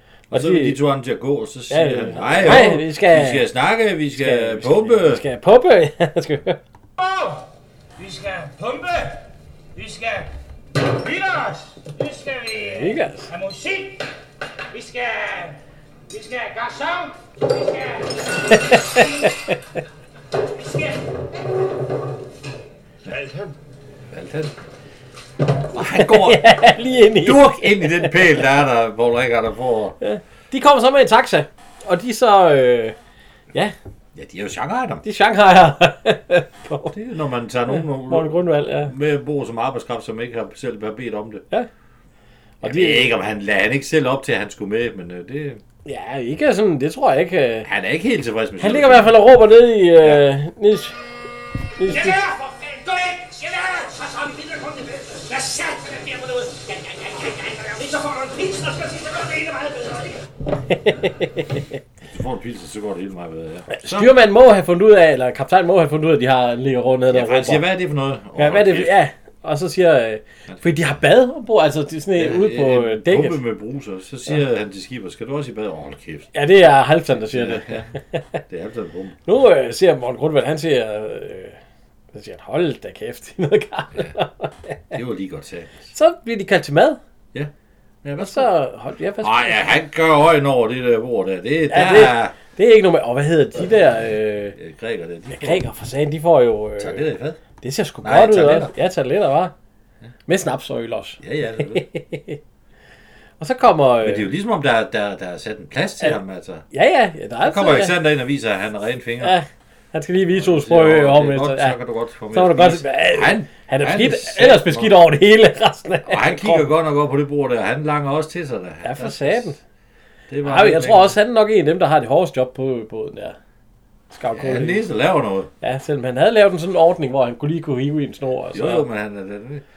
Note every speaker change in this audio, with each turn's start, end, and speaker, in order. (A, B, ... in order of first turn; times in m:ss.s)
0:00.3-0:05.2 A
0:00.3-0:00.8 B
0:01.7-0:03.5 B
0:04.1-0:06.6 B
0:07.0-0:07.4 C
0:08.0-0:09.2 C
0:09.8-0:14.1 C
0:12.7-0:13.3 B
0:14.7-0:15.6 C
0:16.1-0:19.3 C
0:18.5-0:19.5 B
0:20.5-0:21.0 C
0:24.1-0:24.5 A
0:25.7-0:30.0 A
0:25.8-0:28.3 B
0:30.0-0:33.0 B
0:34.2-0:35.0 A
0:35.0-0:36.9 B
0:36.9-0:41.4 A
0:37.7-0:38.9 B
0:42.6-0:43.1 B
0:42.6-0:45.6 A
0:45.8-0:47.7 B
0:47.6-0:49.2 A
0:48.6-0:51.0 B
0:51.8-0:52.2 B
0:51.8-1:00.3 C
1:00.7-1:01.5 B
1:02.0-1:04.1 A
1:03.7-1:07.7 B
1:07.1-1:09.0 A
1:08.4-1:13.4 B
1:10.5-1:11.0 A
1:12.2-1:16.3 A
1:16.3-1:18.4 B
1:17.1-1:17.9 A
1:18.5-1:19.2 A
1:19.3-1:21.6 B
1:22.1-1:25.0 B
1:24.9-1:25.9 A
1:25.9-1:27.0 B
1:28.0-1:28.6 A
1:28.2-1:29.6 B
1:29.2-1:32.4 A
1:31.7-1:34.6 B
1:34.6-1:35.6 A
1:35.3-1:37.1 B
1:36.8-1:37.4 A
1:37.6-1:39.5 B
1:38.0-1:38.7 A
1:40.3-1:42.4 B
1:41.2-1:41.9 A
1:43.4-1:44.3 B
1:44.0-1:46.6 A
1:46.7-1:48.0 B
1:47.4-1:49.4 A
1:49.2-1:51.8 B
1:50.3-1:55.0 A
1:52.3-1:56.7 B
1:56.1-1:59.6 A
1:58.8-1:59.6 B
2:00.3-2:01.2 A
2:00.4-2:03.4 B
2:04.1-2:04.9 B
2:04.3-2:05.5 A
2:05.6-2:08.9 B
2:08.5-2:09.6 A